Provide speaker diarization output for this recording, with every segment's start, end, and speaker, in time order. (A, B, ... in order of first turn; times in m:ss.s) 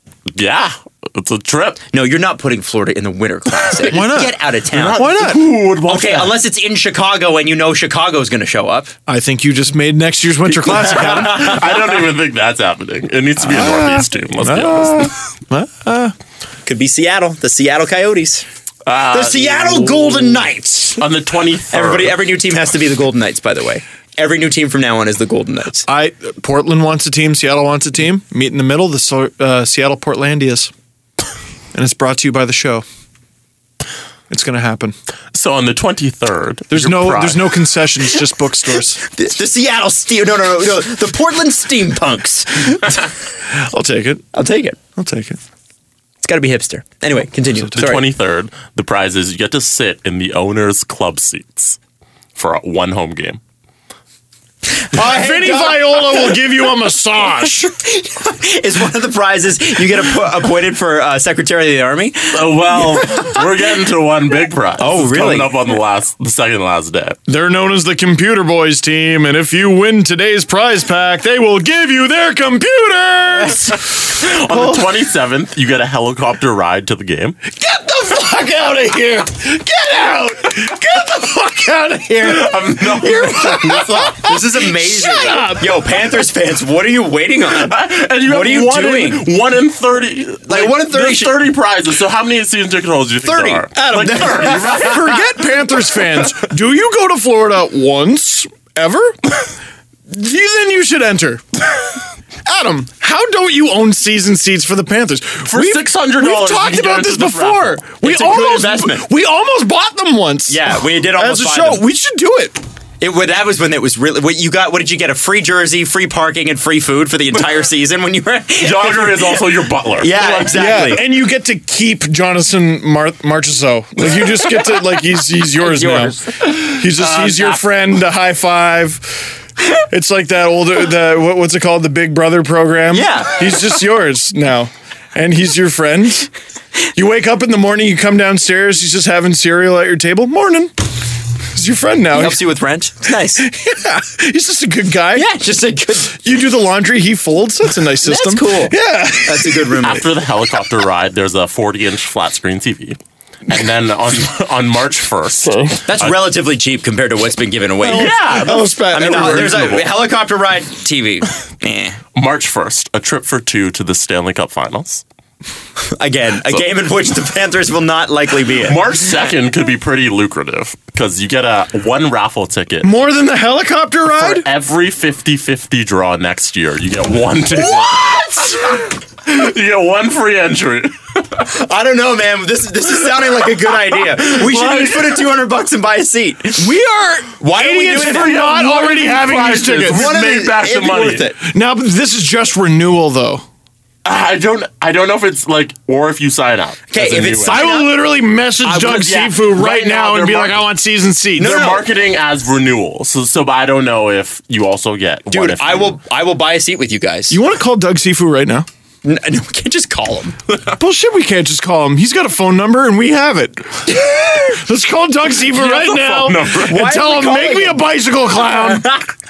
0:00.3-0:01.8 A
0:01.9-0:05.3 B
0:03.9-0:04.3 C
0:04.7-0:06.4 A
0:04.9-0:05.4 C
0:05.8-0:08.9 B
0:09.1-0:11.7 C
0:10.6-0:15.1 A
0:11.2-0:11.6 B
0:13.4-0:16.1 C
0:16.6-0:18.5 B
0:18.8-0:20.4 A
0:19.1-0:21.0 B
0:21.0-0:22.2 A
0:21.7-0:25.8 B
0:25.8-0:30.7 C
0:31.7-0:32.8 C
0:34.3-0:34.9 C
0:35.3-0:37.7 A
0:36.7-0:39.0 C
0:39.0-0:43.1 B
0:43.6-0:44.3 C
0:44.3-0:44.8 B
0:45.0-0:45.4 C
0:46.2-0:48.0 B
0:47.8-0:51.8 A
0:52.4-0:53.4 A
0:54.8-0:56.4 B
0:54.9-0:57.7 C
0:57.6-1:03.4 B
1:02.3-1:07.2 A
1:04.8-1:05.5 B
1:07.3-1:14.8 C
1:14.1-1:17.4 A
1:17.5-1:26.0 C
1:22.2-1:24.3 A
1:23.2-1:29.3 B
1:27.5-1:35.2 A
1:30.5-1:31.4 B
1:33.2-1:35.1 B
1:33.8-1:39.2 C
1:40.1-1:41.5 C
1:42.4-1:52.6 C
1:45.4-1:47.8 A
1:48.0-1:49.1 B
1:50.5-1:51.8 B
1:53.0-1:59.4 B
1:58.6-2:01.0 A
2:00.0-2:01.1 B
2:00.5-2:16.3 C
2:05.6-2:07.6 B
2:07.0-2:07.5 A
2:12.9-2:13.4 B
2:16.9-2:20.7 C
2:21.5-2:22.5 C
2:22.1-2:23.5 B
2:23.3-2:25.3 C
2:25.1-2:26.2 B
2:26.2-2:29.8 C
2:28.0-2:30.1 B
2:29.8-2:36.2 A
2:35.4-2:35.8 C
2:35.9-2:38.1 B
2:37.8-2:39.7 C
2:37.8-2:39.9 A
2:38.9-2:42.0 B
2:42.2-2:45.0 A
2:45.8-2:48.8 B
2:48.6-2:52.9 A
2:52.8-2:54.5 C
2:54.1-3:01.5 A
2:57.5-2:58.8 C
3:01.5-3:06.7 B
3:04.2-3:05.3 A
3:06.6-3:10.1 C
3:07.4-3:09.1 B
3:08.0-3:11.3 A
3:09.8-3:11.4 B
3:11.4-3:13.4 C
3:14.0-3:17.8 A
3:16.9-3:18.0 B
3:17.4-3:21.6 C
3:18.6-3:20.7 A
3:18.6-3:19.1 B
3:21.4-3:21.8 B
3:21.4-3:26.0 A
3:25.3-3:27.4 B
3:27.3-3:28.7 C
3:29.0-3:30.4 B
3:30.7-3:39.0 C
3:35.5-3:36.9 A
3:36.7-3:37.9 B